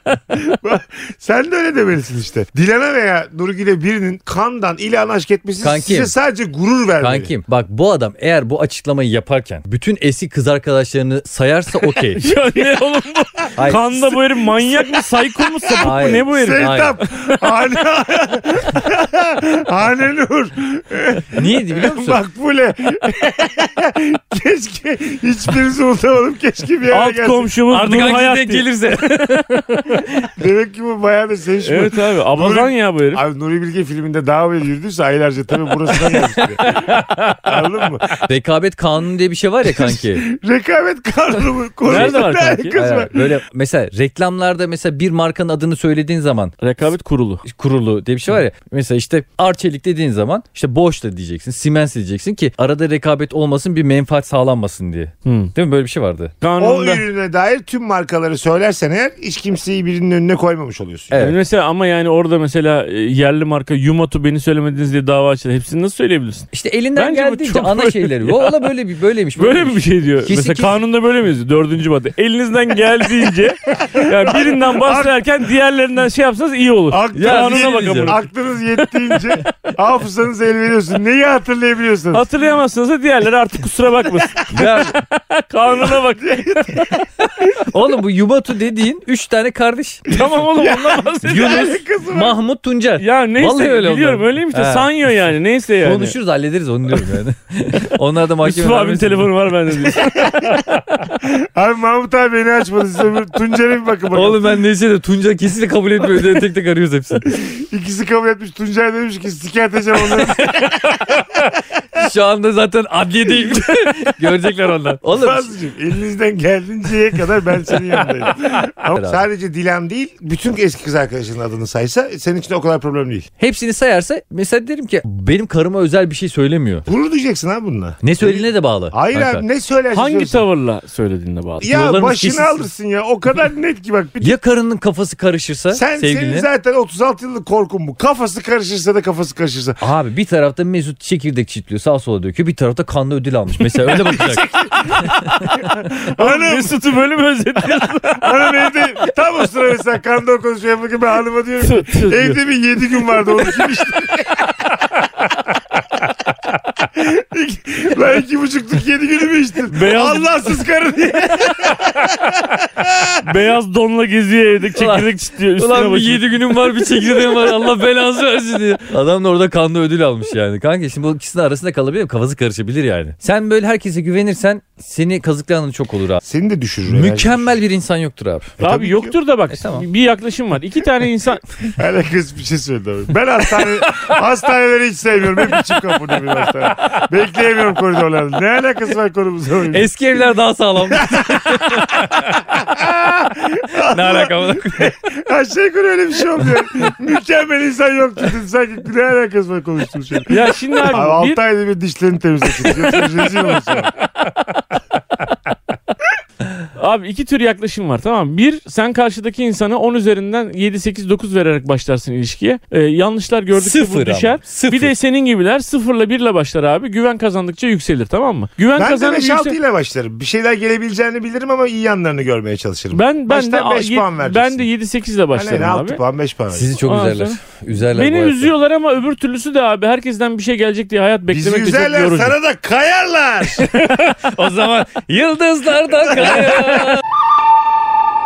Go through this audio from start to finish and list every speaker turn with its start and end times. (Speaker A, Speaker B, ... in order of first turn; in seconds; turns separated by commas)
Speaker A: 0.3-7.3, Speaker B: 5.6-6.1, Speaker B: 7.0-12.2, Speaker C: 12.2-17.4, Speaker B: 13.6-13.9, Speaker A: 14.6-15.0, Speaker A: 15.5-27.5, Speaker B: 15.8-17.0, Speaker B: 21.3-22.2, Speaker C: 26.9-29.2, Speaker B: 27.7-30.3, Speaker A: 30.4-38.2, Speaker C: 31.6-33.2, Speaker B: 36.1-37.6, Speaker B: 38.2-40.3, Speaker A: 39.7-43.3, Speaker C: 41.9-42.8, Speaker B: 41.9-46.5, Speaker C: 46.6-47.5, Speaker B: 47.5-56.3, Speaker C: 55.2-55.5, Speaker C: 56.4-57.0, Speaker A: 56.6-61.2, Speaker B: 61.1-61.4, Speaker C: 61.2-68.6, Speaker B: 66.5-70.8, Speaker C: 69.4-78.2, Speaker A: 73.8-75.2, Speaker A: 76.9-82.3, Speaker B: 77.1-78.2, Speaker C: 78.8-79.3, Speaker C: 82.1-87.0, Speaker B: 84.5-85.0, Speaker A: 86.2-87.0, Speaker B: 87.4-90.1, Speaker C: 90.1-91.7, Speaker A: 90.2-92.4, Speaker B: 91.2-94.9, Speaker C: 93.0-96.2, Speaker B: 95.8-99.3, Speaker C: 98.4-100.8, Speaker A: 100.2-100.6, Speaker A: 101.2-104.5, Speaker B: 104.1-107.3, Speaker A: 107.3-111.5, Speaker B: 110.2-110.7, Speaker B: 111.9-115.5, Speaker A: 115.2-123.3, Speaker B: 118.9-119.3, Speaker B: 123.4-126.9, Speaker A: 126.9-130.4, Speaker B: 128.0-129.5, Speaker C: 129.9-131.8, Speaker A: 131.6-134.4, Speaker B: 131.7-132.6, Speaker B: 134.2-136.5, Speaker A: 135.7-139.8, Speaker B: 139.8-144.4, Speaker A: 143.8-146.8, Speaker C: 146.1-148.8, Speaker A: 148.2-155.3, Speaker C: 151.6-152.4, Speaker A: 156.8-163.2, Speaker C: 159.7-160.6, Speaker C: 163.2-166.3, Speaker B: 164.7-176.2, Speaker A: 176.3-177.6, Speaker B: 176.9-178.6, Speaker A: 178.6-179.2, Speaker C: 178.6-181.4, Speaker B: 179.5-179.9, Speaker A: 181.7-189.9, Speaker B: 189.7-192.3, Speaker A: 191.0-203.9, Speaker B: 193.8-194.9, Speaker C: 200.3-201.4, Speaker C: 202.7-203.0, Speaker C: 206.8-219.6, Speaker B: 213.5-214.9, Speaker A: 218.8-224.7, Speaker C: 222.9-226.0, Speaker A: 225.3-226.8, Speaker B: 226.5-228.5, Speaker C: 226.8-227.4, Speaker C: 227.9-232.3, Speaker A: 231.3-233.7, Speaker C: 233.7-234.2, Speaker B: 234.2-237.0, Speaker A: 236.0-237.0